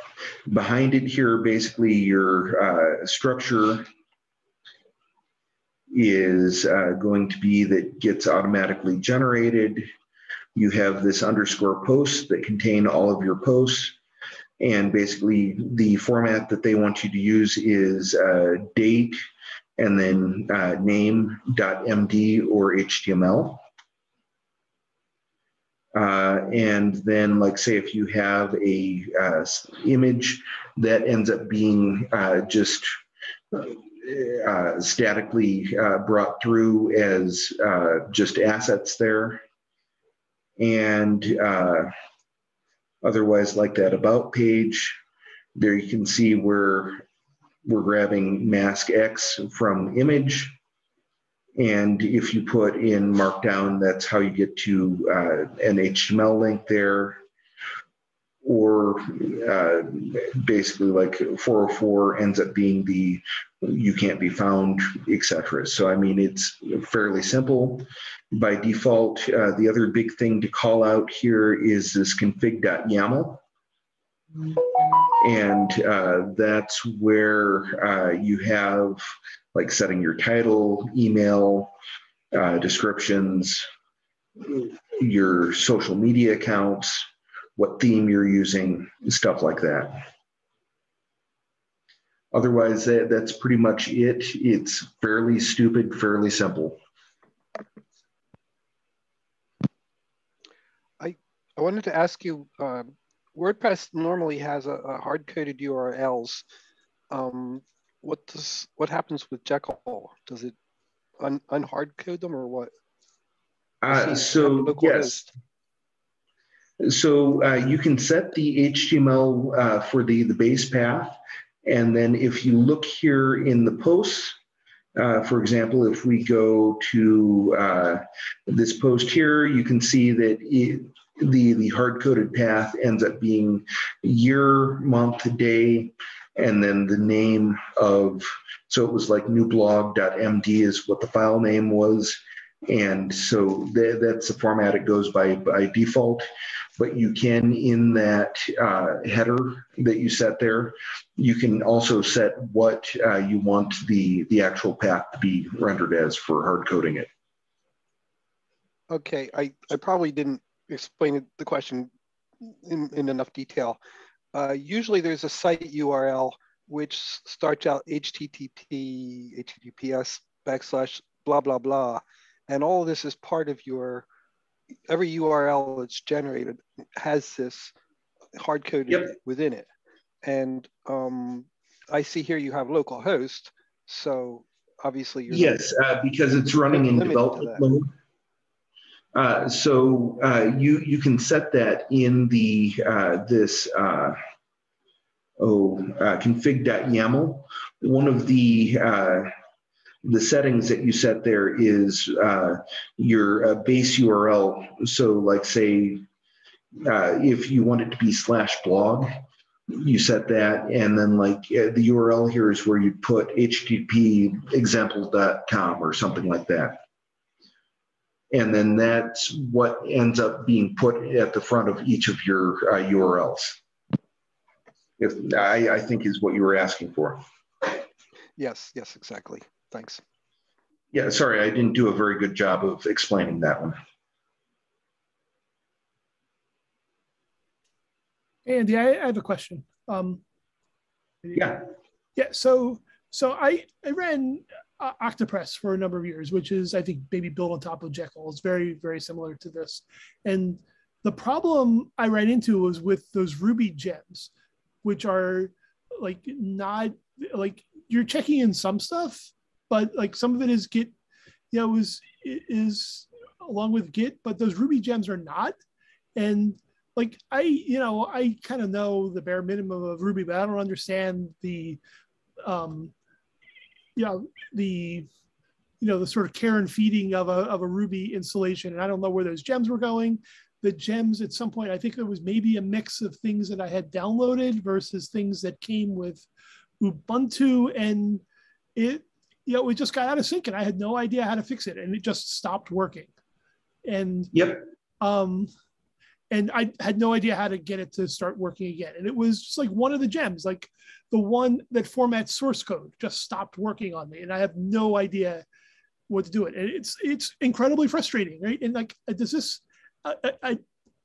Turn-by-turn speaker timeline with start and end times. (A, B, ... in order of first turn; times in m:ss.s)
0:00.5-0:03.8 A
0:05.9-0:09.9 A
0:10.6-0:14.0 A
0:14.6-0:19.2 A
0:19.8-0:23.6 A
0:25.9-0:32.9 A
0:33.5-0:39.4 A
0:40.6-0:41.9 A
0:43.0-0:45.0 A
0:45.6-0:47.0 A
0:47.6-0:50.5 A
0:51.6-0:57.2 A
0:58.4-1:13.4 A
1:15.2-1:19.0 A
1:19.5-1:21.7 A
1:22.3-1:23.7 A
1:24.4-1:30.0 A
1:32.3-1:36.8 A
1:41.0-1:46.4 B
1:47.1-1:50.5 B
1:51.2-1:52.7 B
1:53.8-1:55.2 A
1:53.9-1:55.3 B
1:56.8-2:04.4 A
2:05.0-2:26.2 A
2:26.8-2:37.1 A
2:38.9-2:41.9 B
2:42.4-2:43.8 B
2:44.3-2:54.0 B
2:54.9-2:57.7 B
2:58.4-2:59.7 B
3:00.2-3:05.6 B
3:05.3-3:07.9 A
3:06.5-3:07.6 B
3:09.1-3:14.2 A
3:15.4-3:19.3 A
3:20.0-3:26.0 A
3:26.8-3:29.1 A
3:29.7-3:36.8 A
3:38.3-3:43.6 A
3:45.0-3:47.2 A
3:48.4-3:50.0 B
3:50.9-3:53.8 A
3:58.4-4:00.2 C
4:01.3-4:01.6 A
4:02.2-4:14.3 C
4:14.8-4:20.9 C
4:21.5-4:25.6 C
4:26.2-4:31.8 C
4:32.4-4:32.9 C
4:34.0-4:35.1 C
4:35.8-4:46.3 C
4:46.8-4:48.2 C
4:48.8-4:53.1 C
4:53.8-4:54.3 C
4:54.3-4:54.6 A
4:55.0-4:55.5 C
4:56.3-5:05.4 C
5:06.1-5:10.6 C